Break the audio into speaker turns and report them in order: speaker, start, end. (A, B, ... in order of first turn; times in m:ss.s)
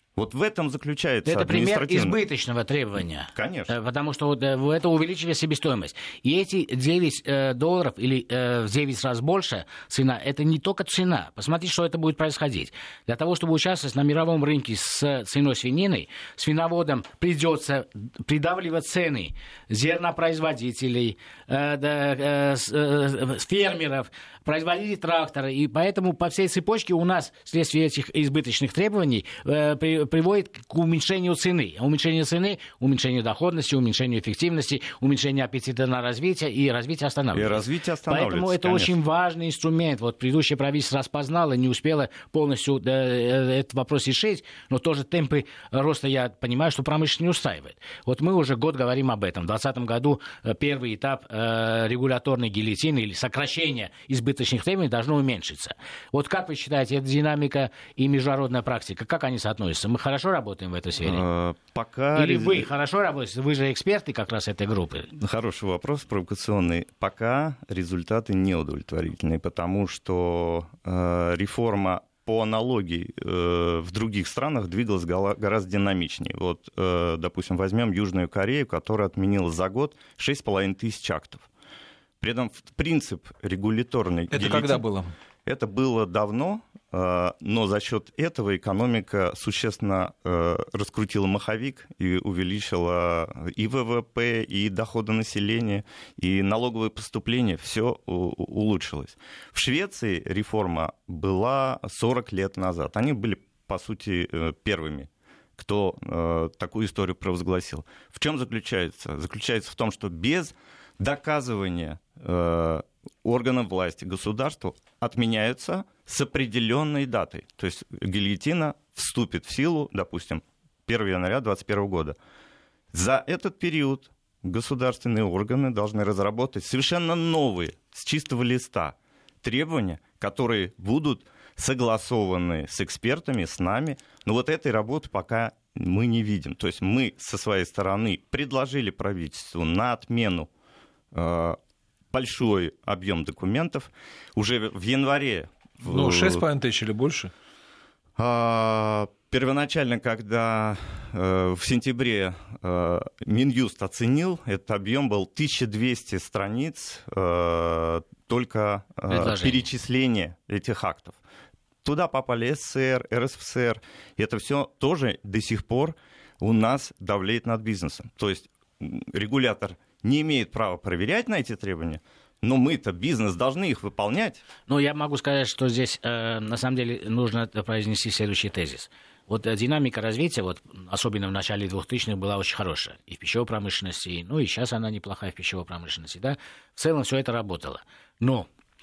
0:00.2-0:02.2 A
0:01.2-1:01.2 B
0:03.3-0:03.7 A
0:37.3-0:38.9 A
1:01.0-1:02.7 A
1:02.2-1:05.1 B
1:05.2-1:21.5 A
1:22.2-1:24.8 A
1:24.3-1:25.1 C
1:25.4-2:02.2 A
2:02.9-2:20.5 A
2:21.1-2:21.6 A
2:22.1-2:26.4 A
2:25.8-2:27.3 C
2:28.2-2:41.2 A
2:39.1-2:39.6 B
2:41.8-2:54.4 A
2:54.7-3:08.5 B